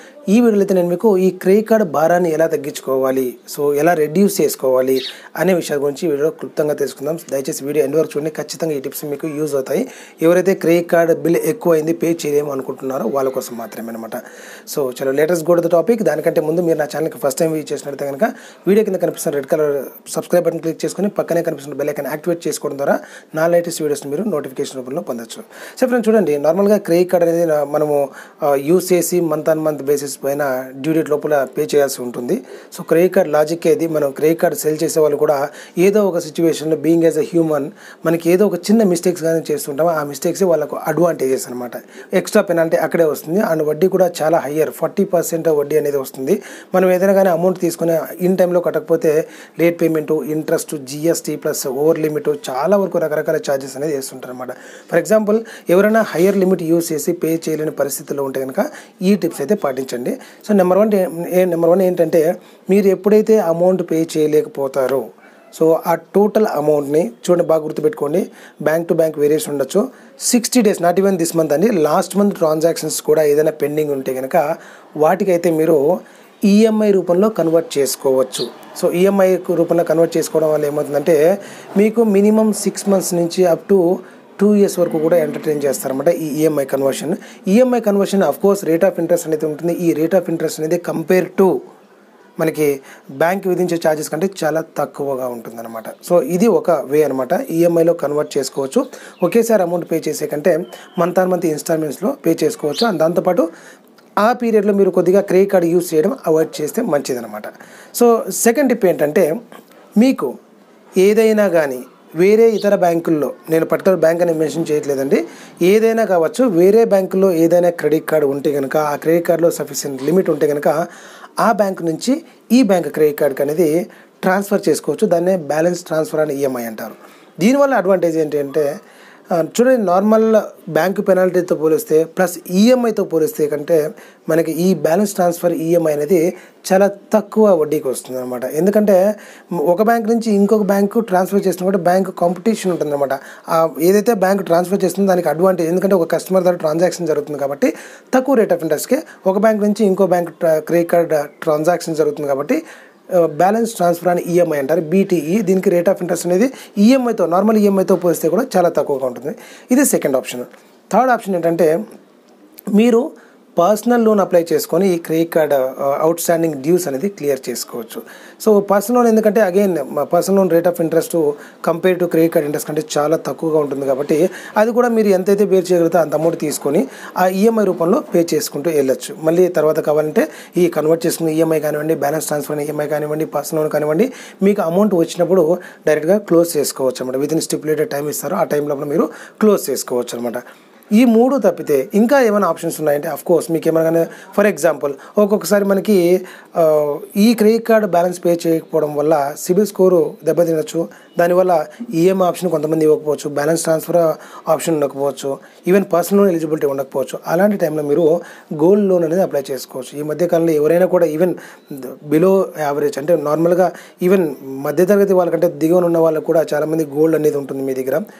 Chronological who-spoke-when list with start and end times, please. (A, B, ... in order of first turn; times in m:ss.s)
0:00.3-1:14.4 A
1:15.0-1:15.8 A
1:16.5-1:21.2 A
1:21.8-1:23.8 A
1:24.4-1:31.5 A
1:32.4-1:43.5 A
1:44.2-1:49.3 A
1:50.0-1:50.3 A
1:51.0-2:00.8 A
2:01.4-2:03.7 A
2:04.2-2:08.7 A
2:09.3-2:19.0 A
2:19.6-2:32.6 A
2:33.1-2:41.7 A
2:42.7-2:43.0 A
2:43.6-3:10.4 A
3:11.0-3:16.0 A
3:16.5-3:38.0 A